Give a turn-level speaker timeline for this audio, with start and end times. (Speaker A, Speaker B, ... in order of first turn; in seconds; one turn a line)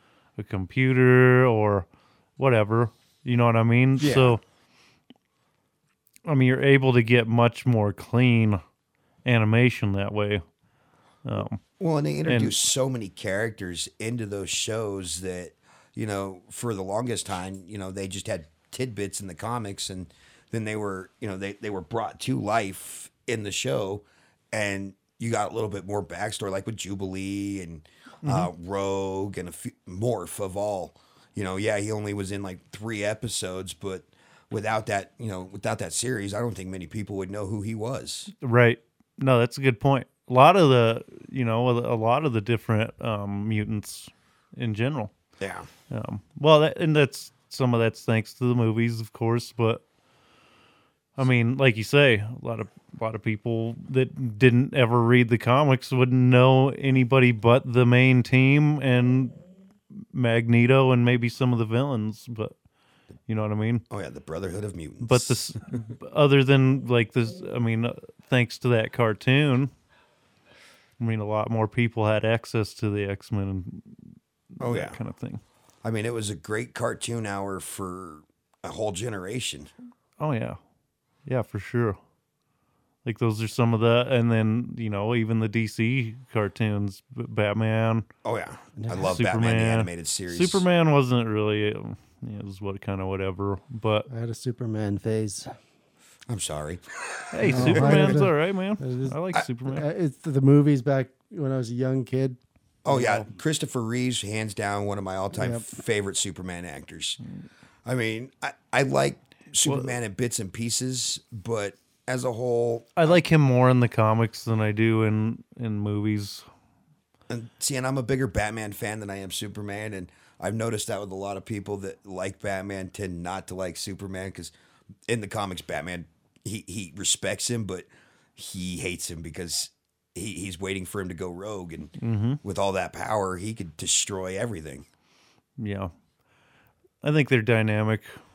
Speaker A: 0.4-1.9
Speaker A: 2.4-4.4
Speaker B: 4.0-4.4
Speaker A: 6.3-8.6
Speaker A: 9.2-10.4
Speaker A: 11.2-11.6
Speaker B: 11.8-38.3
Speaker A: 12.3-12.6
Speaker A: 28.2-28.5
Speaker A: 38.4-45.1
Speaker B: 45.4-45.7
Speaker A: 45.9-49.8
Speaker A: 51.2-59.4
Speaker A: 59.9-62.5
Speaker A: 63.3-63.8
Speaker B: 63.9-65.8
Speaker A: 65.0-69.7
Speaker A: 71.0-74.0
Speaker A: 74.6-75.4
Speaker B: 74.6-75.0
Speaker B: 75.8-79.7
Speaker A: 80.2-80.6
Speaker A: 81.3-82.0
Speaker A: 83.0-88.1
Speaker B: 88.2-90.6
Speaker C: 88.8-89.2
Speaker A: 89.0-94.1
Speaker C: 94.1-95.5
Speaker B: 96.3-98.2
Speaker A: 97.3-99.9
Speaker C: 97.4-103.4
Speaker B: 102.8-107.2
Speaker C: 105.3-105.7
Speaker B: 107.8-113.2
Speaker A: 109.6-109.9
Speaker A: 113.0-116.5
Speaker B: 117.3-124.5
Speaker B: 125.1-134.9
Speaker A: 132.0-132.4
Speaker A: 135.6-135.9
Speaker A: 137.0-138.1